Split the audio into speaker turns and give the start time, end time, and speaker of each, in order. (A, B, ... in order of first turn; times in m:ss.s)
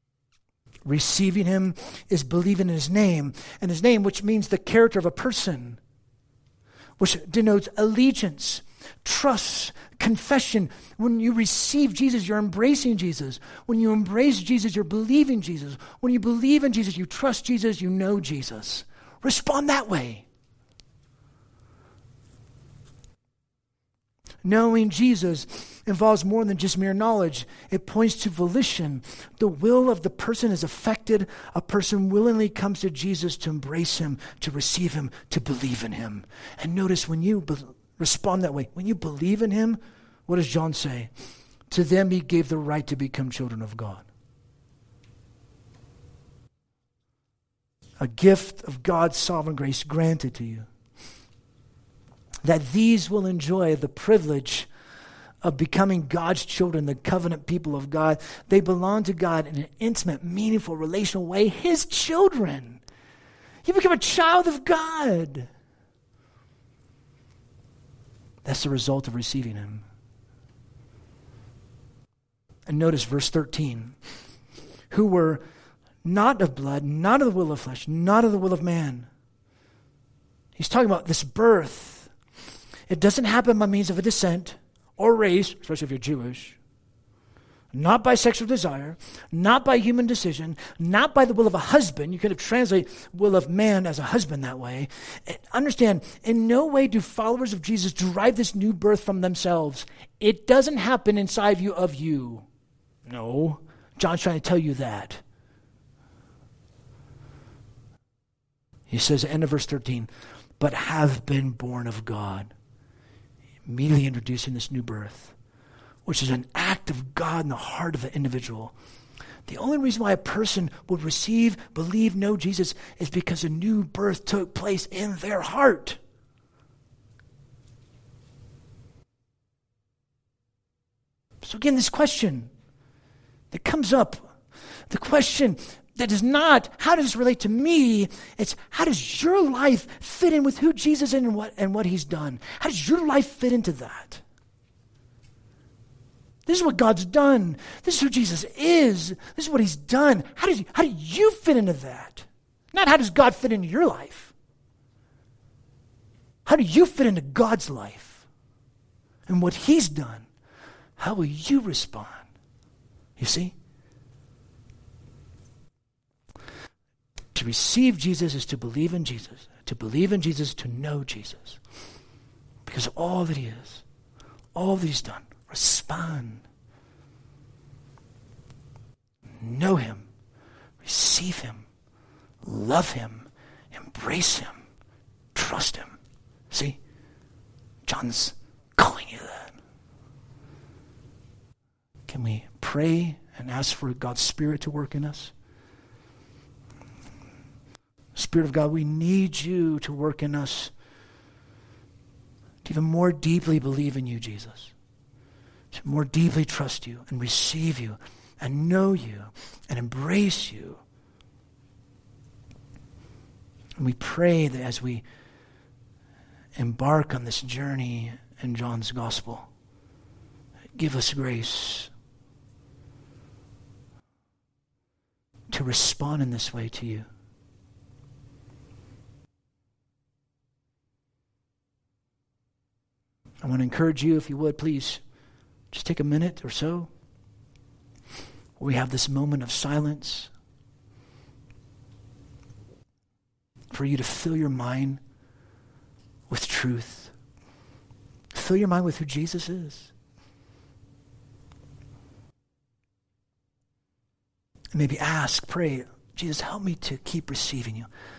0:00.8-0:05.8 A
0:07.0-0:20.2 A
0:24.4-0:41.1 A
0:41.7-0:44.0 A
0:48.0-0:50.7 A
0:52.4-0:54.7 A
0:55.4-1:02.8 A
1:03.6-1:05.5 A
1:08.4-1:09.8 A
1:12.7-1:13.9 A
1:14.9-1:15.4 A
1:16.0-1:19.1 A
1:20.6-1:22.1 A
1:22.9-1:26.6 A
1:27.7-1:42.4 A
1:43.1-1:45.2 A
1:48.9-1:52.5 A
1:53.6-1:55.3 A
1:56.0-1:58.7 A
1:59.4-2:06.0 A
2:11.4-2:12.5 A
2:13.5-2:14.3 A
2:14.9-2:24.2 A
2:26.4-2:34.3 A
2:36.4-2:38.2 A
2:39.3-2:40.3 A
2:41.0-2:42.2 A
2:43.2-2:43.5 A
2:47.3-2:51.6 A
2:52.6-2:53.8 A
2:54.5-2:56.4 A
2:59.4-3:00.1 A
3:00.8-3:01.6 A
3:02.4-3:04.6 A
3:05.3-3:06.0 A
3:06.5-3:06.8 A
3:07.8-3:09.6 A
3:12.1-3:15.3 A
3:18.2-3:20.7 A
3:22.6-3:24.7 A
3:25.7-3:30.8 A
3:33.8-3:35.0 A
3:36.6-3:39.5 A
3:40.7-3:41.9 A
3:45.5-3:47.0 A
3:53.4-3:55.0 A
3:55.7-3:56.9 A
3:58.6-4:00.3 A
4:03.7-4:05.0 A
4:06.3-4:07.1 A
4:08.3-4:09.9 A
4:14.7-4:17.9 A